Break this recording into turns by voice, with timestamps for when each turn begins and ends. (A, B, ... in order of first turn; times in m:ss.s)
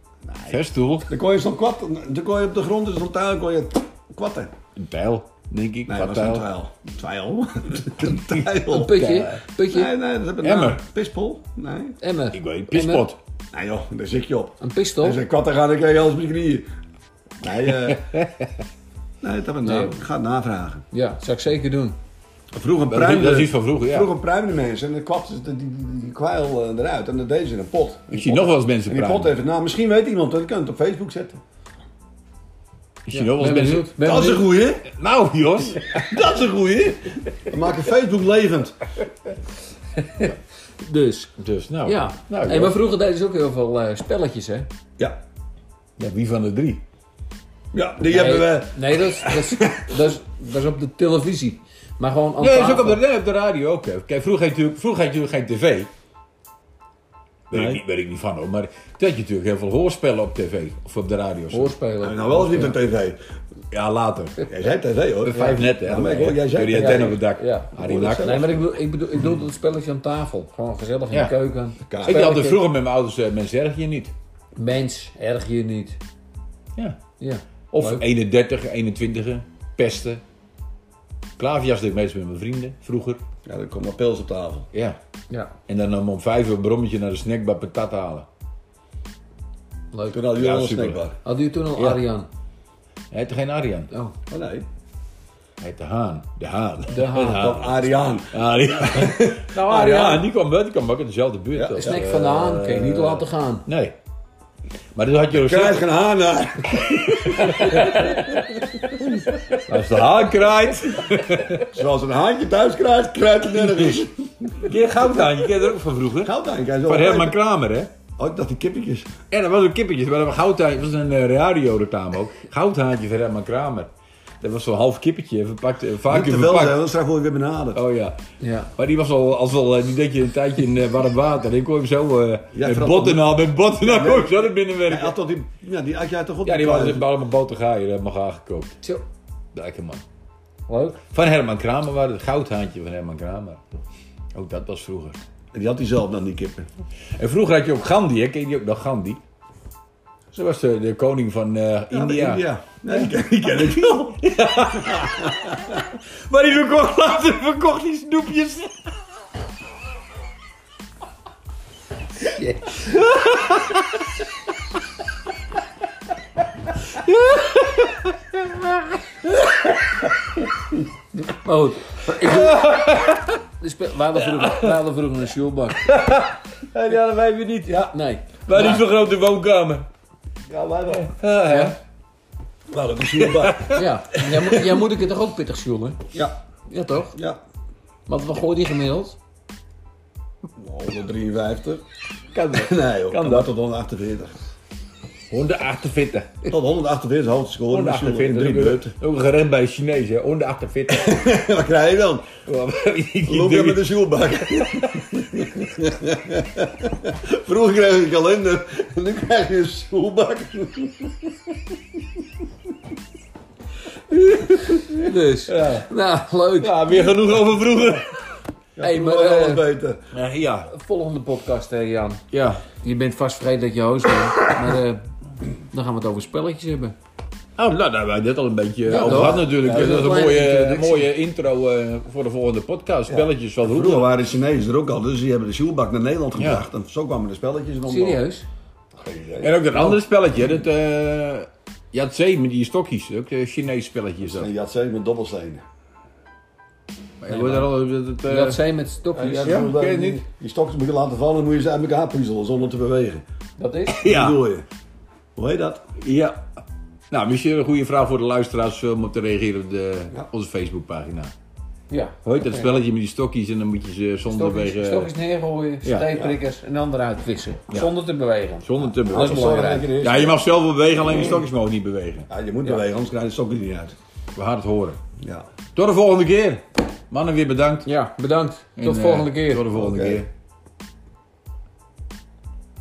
0:00.3-0:04.5 A
0:00.5-0:01.1 B
0:04.8-0:06.5 B
0:05.9-0:09.0 A
0:08.7-0:09.9 C
0:08.8-0:09.4 B
0:09.6-0:12.0 A
0:10.4-0:10.8 B
0:12.0-0:13.1 C
0:12.3-0:13.2 B
0:13.5-0:16.7 A
0:14.6-0:15.2 C
0:17.4-0:18.1 A
0:17.9-0:18.5 B
0:19.2-0:20.8 A
0:19.6-0:20.0 C
0:20.9-0:22.0 C
0:22.5-0:31.4 A
0:22.9-0:24.1 B
0:28.1-0:29.3 B
0:33.1-0:33.9 B
0:33.1-0:34.6 C
0:34.0-0:34.8 A
0:34.9-0:36.1 B
0:35.9-0:38.8 A
0:40.0-0:41.3 C
0:41.4-0:42.8 B
0:41.8-0:44.7 C
0:46.0-0:46.8 B
0:47.7-0:50.0 A
0:48.1-0:53.0 C
0:52.4-0:55.9 B
0:57.5-1:01.8 B
1:01.5-1:02.8 C
1:02.0-1:03.2 A
1:03.7-1:04.5 B
1:04.5-1:07.2 A
1:05.2-1:08.4 B
1:05.3-1:05.6 C
1:06.8-1:12.7 C
1:07.8-1:08.6 A
1:11.9-1:12.3 A
1:12.0-1:14.1 B
1:14.6-1:16.0 C
1:17.2-1:18.0 C
1:17.7-1:20.2 B
1:21.4-1:23.2 B
1:23.5-1:24.7 A
1:24.7-1:25.0 B
1:25.7-1:28.3 B
1:29.9-1:31.2 A
1:30.4-1:31.0 B
1:31.2-1:32.3 C
1:31.8-1:32.0 B
1:33.1-1:33.9 B
1:34.3-1:34.7 A
1:35.6-1:44.0 B
1:36.9-1:37.6 C
1:37.2-1:39.4 A
1:39.5-1:40.3 C
1:41.6-1:42.0 A
1:41.8-1:43.7 C
1:45.0-1:45.8 B
1:45.3-1:49.2 A
1:47.3-1:48.1 B
1:49.6-1:51.7 B
1:51.7-1:54.7 A
1:53.6-1:54.0 B
1:54.6-1:56.3 B
1:56.2-1:57.4 A
1:56.9-1:57.9 B
1:58.2-1:59.2 A
1:59.3-2:03.9 B
2:04.4-2:06.8 B
2:06.1-2:07.8 A
2:07.8-2:08.2 B
2:08.4-2:08.7 C
2:08.8-2:15.1 B
2:12.5-2:17.1 A
2:16.4-2:18.8 B
2:19.5-2:20.0 B
2:20.7-2:21.0 C
2:21.1-2:23.6 B
2:24.3-2:25.2 B
2:25.5-2:26.7 A
2:27.2-2:29.2 B
2:30.3-2:33.1 B
2:31.9-2:34.2 A
2:33.6-2:38.8 B
2:42.2-2:42.9 C
2:42.9-2:43.8 B
2:47.0-2:48.8 B
2:51.3-2:52.6 C
2:52.1-2:53.4 B
2:53.6-2:55.9 C
2:54.2-2:54.8 B
2:55.8-2:57.9 B
2:56.9-2:57.9 A
2:57.9-2:58.8 C
2:58.5-2:59.9 B
3:00.5-3:01.1 A
3:00.9-3:01.8 B
3:01.5-3:01.8 C
3:02.7-3:03.8 A
3:03.2-3:03.8 B
3:03.7-3:06.0 C
3:04.4-3:04.7 A
3:06.7-3:07.2 C
3:07.2-3:07.4 A
3:08.1-3:09.2 C
3:10.6-3:11.8 A
3:12.3-3:13.5 B
3:12.5-3:14.3 A
3:15.3-3:16.4 B
3:16.5-3:18.9 A
3:17.7-3:21.2 B
3:20.9-3:22.4 A
3:22.5-3:24.9 B
3:23.2-3:31.2 A
3:34.4-3:34.8 B
3:34.8-3:37.0 C
3:35.5-3:35.9 B
3:36.6-3:38.2 B
3:38.8-3:40.0 A
3:38.8-3:39.6 C
3:40.1-3:40.7 B
3:40.7-3:42.2 C
3:42.3-3:42.6 B
3:42.8-3:45.1 C
3:45.7-3:47.0 C
3:47.6-3:54.1 B
3:48.9-3:51.1 C
3:48.9-3:49.8 A
3:53.1-3:58.2 A
3:56.4-3:56.6 B
3:57.8-3:58.5 C
3:59.0-3:59.6 A
3:59.4-4:04.5 B
3:59.7-4:00.0 C
4:04.2-4:05.6 A
4:07.2-4:08.6 B
4:07.3-4:07.7 C
4:08.2-4:09.7 C
4:09.1-4:13.2 A
4:09.4-4:10.2 B
4:13.6-4:14.0 C
4:13.9-4:14.4 B
4:14.0-4:14.7 A
4:15.4-4:15.8 A
4:16.0-4:16.4 B
4:17.1-4:21.3 B
4:21.9-4:22.8 C
4:22.2-4:25.1 B
4:24.3-4:30.0 C
4:25.8-4:26.1 B
4:28.6-4:32.3 B
4:29.1-4:30.4 A
4:32.3-4:34.0 A
4:34.4-4:35.0 B
4:35.2-4:35.5 A
4:35.8-4:37.9 B
4:37.8-4:39.7 C
4:38.8-4:40.3 B
4:39.7-4:40.2 A